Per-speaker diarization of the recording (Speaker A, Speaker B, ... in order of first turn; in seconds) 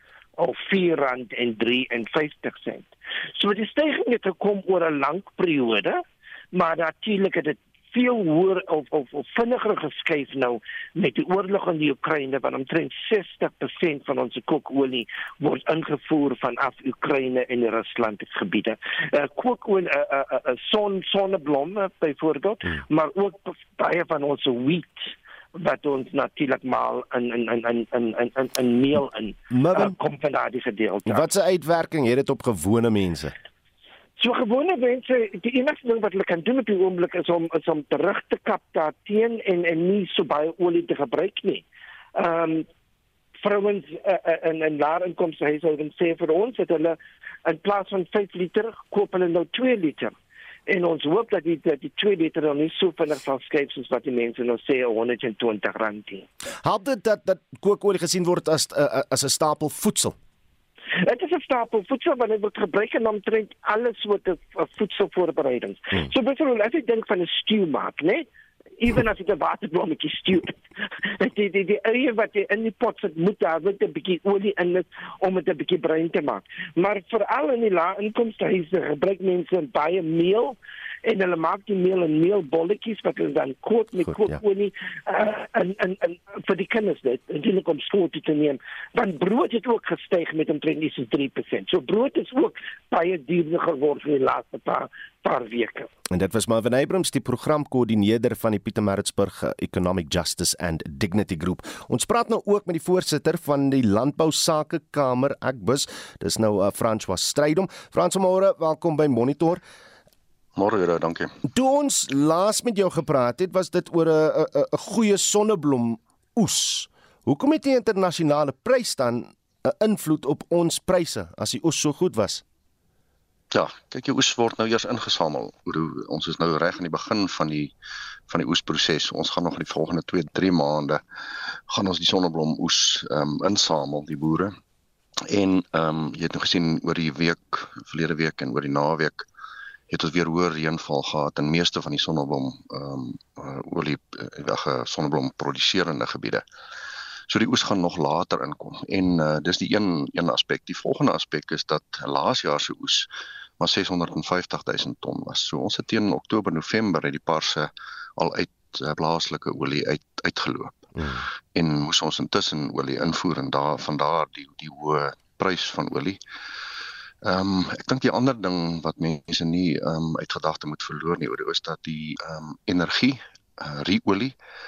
Speaker A: 0.4-31.3, 34.2-41.6, 42.1-42.6, 43.4-50.1, 50.7-56.2, 61.0-68.3, 68.8-70.6, 71.2-95.9
Speaker B: 29.5-29.9, 31.1-33.3, 56.6-60.1, 84.1-84.4, 96.1-109.6, 111.5-122.4, 160.9-161.2
Speaker C: 110.6-111.3, 123.5-127.7, 128.3-131.0, 131.7-134.5, 135.3-139.2, 139.9-146.4, 147.3-153.1, 153.6-160.8, 161.5-166.2, 167.2-174.4